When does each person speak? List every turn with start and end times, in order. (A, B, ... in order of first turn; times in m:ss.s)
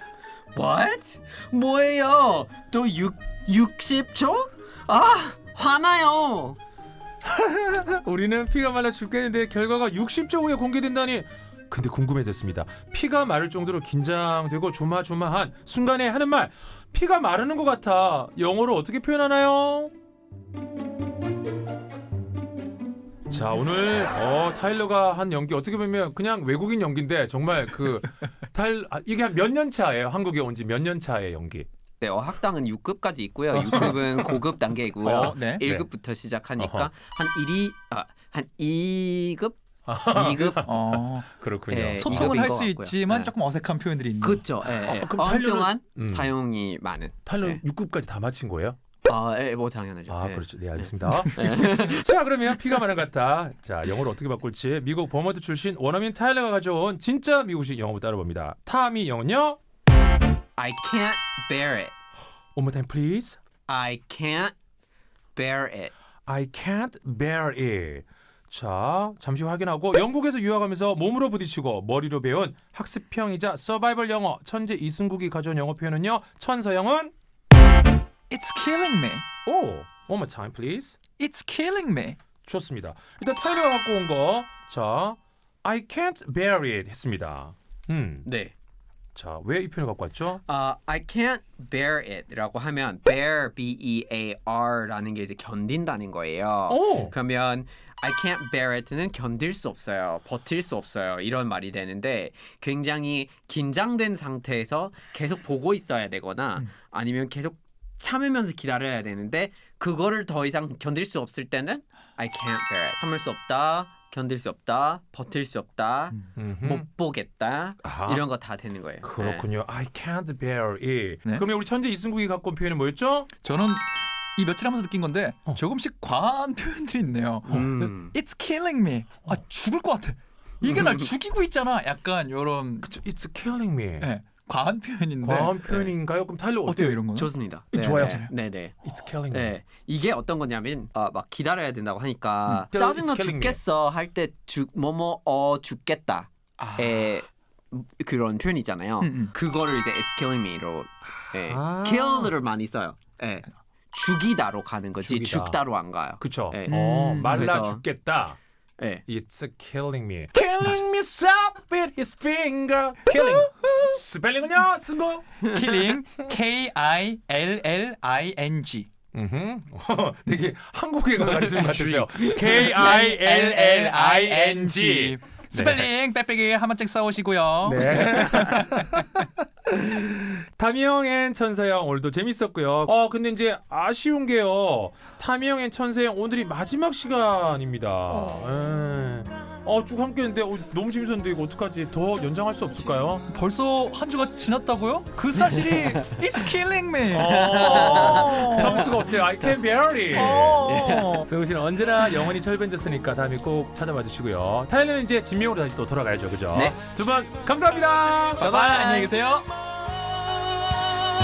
0:00.6-0:06.6 A
0:07.2-0:19.9 B
0:23.3-0:31.7 B
0:32.0-0:39.6 A
0:33.5-0:34.4 B
0:35.0-0:35.9 B
0:35.2-0:35.6 C
0:36.6-0:36.9 B
0:39.9-0:42.6 B
0:40.1-0:40.7 A
0:40.6-0:41.3 C
0:41.7-0:43.3 A
0:42.0-0:44.4 C
0:44.2-0:47.6 A
0:44.6-0:46.4 B
0:47.2-0:48.8 B
0:49.0-0:52.1 A
0:50.1-0:59.6 B
1:00.6-1:01.9 A
1:02.6-1:03.4 B
1:03.7-1:04.6 A
1:05.4-1:05.9 A
1:06.3-1:17.1 B
1:18.3-1:19.2 C
1:19.4-1:21.0 B
1:21.2-1:22.2 C
1:22.4-1:28.3 B
1:28.2-1:28.5 A
1:29.2-1:30.4 B
1:30.5-1:59.5 A
1:36.7-1:37.1 B
1:56.3-1:56.8 B
1:57.8-1:58.3 B
1:59.0-2:03.3 B
2:03.4-2:12.9 C
2:07.5-2:08.1 A
2:07.5-2:07.9 B
2:10.6-2:11.1 A
2:12.8-2:14.1 B
2:14.0-2:15.6 C
2:15.2-2:17.1 B
2:15.6-2:15.9 A
2:16.7-2:18.3 C
2:17.1-2:18.8 A
2:17.7-2:18.2 B
2:18.8-2:19.6 B
2:19.3-2:37.8 A
2:22.6-2:23.6 B
2:26.6-2:27.1 C
2:29.0-2:29.3 C
2:31.5-2:32.3 B
2:35.0-2:35.6 B
2:36.2-2:38.4 B
2:36.7-2:37.5 C
2:39.1-2:45.4 B
2:45.4-2:48.9 C
2:45.4-2:45.9 A
2:49.1-2:55.9 B
2:51.2-2:52.8 A
2:52.7-2:58.9 C
2:57.6-3:13.3 B
3:13.3-3:18.9 C
3:15.4-3:16.0 A
3:17.1-3:28.5 B
3:17.2-3:19.0 A
3:20.1-3:21.3 C
3:20.6-3:21.2 A
3:26.5-3:26.8 A
3:28.4-3:29.5 C
3:28.4-3:29.1 A